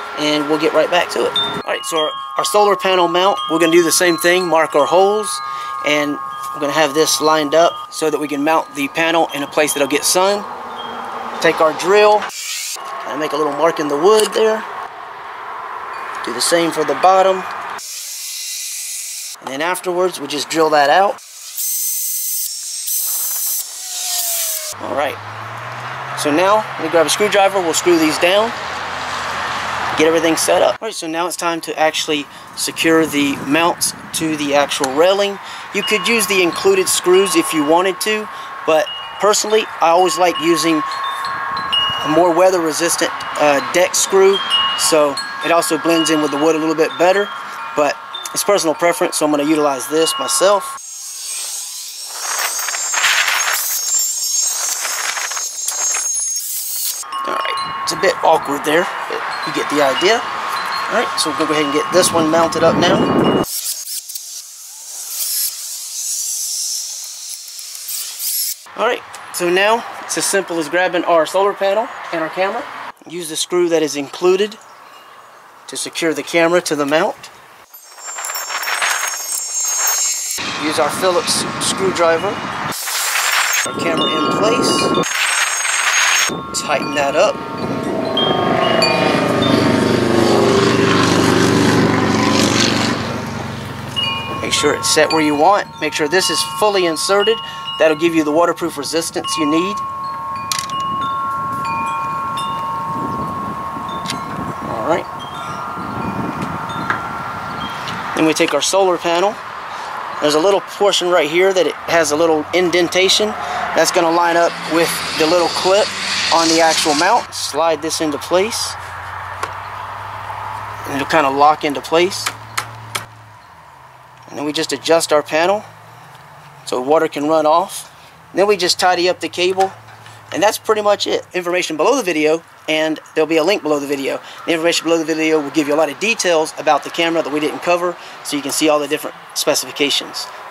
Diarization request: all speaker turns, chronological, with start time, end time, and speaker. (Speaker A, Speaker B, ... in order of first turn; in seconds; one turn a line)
Speaker A: 0.1-10.5
Speaker A: 11.4-12.3
Speaker A: 13.0-14.7
Speaker A: 16.2-17.5
Speaker A: 19.4-21.2
Speaker A: 24.8-25.2
Speaker A: 26.1-28.6
Speaker A: 29.9-40.8
Speaker A: 42.0-50.8
Speaker A: 57.2-60.2
Speaker A: 60.9-63.1
Speaker A: 68.8-74.6
Speaker A: 75.7-77.3
Speaker A: 80.6-82.4
Speaker A: 83.6-84.9
Speaker A: 86.5-87.4
Speaker A: 94.4-99.8
Speaker A: 104.6-105.1
Speaker A: 108.1-109.4
Speaker A: 110.2-118.8
Speaker A: 120.8-122.3
Speaker A: 124.3-125.7
Speaker A: 126.6-129.8
Speaker A: 130.3-140.3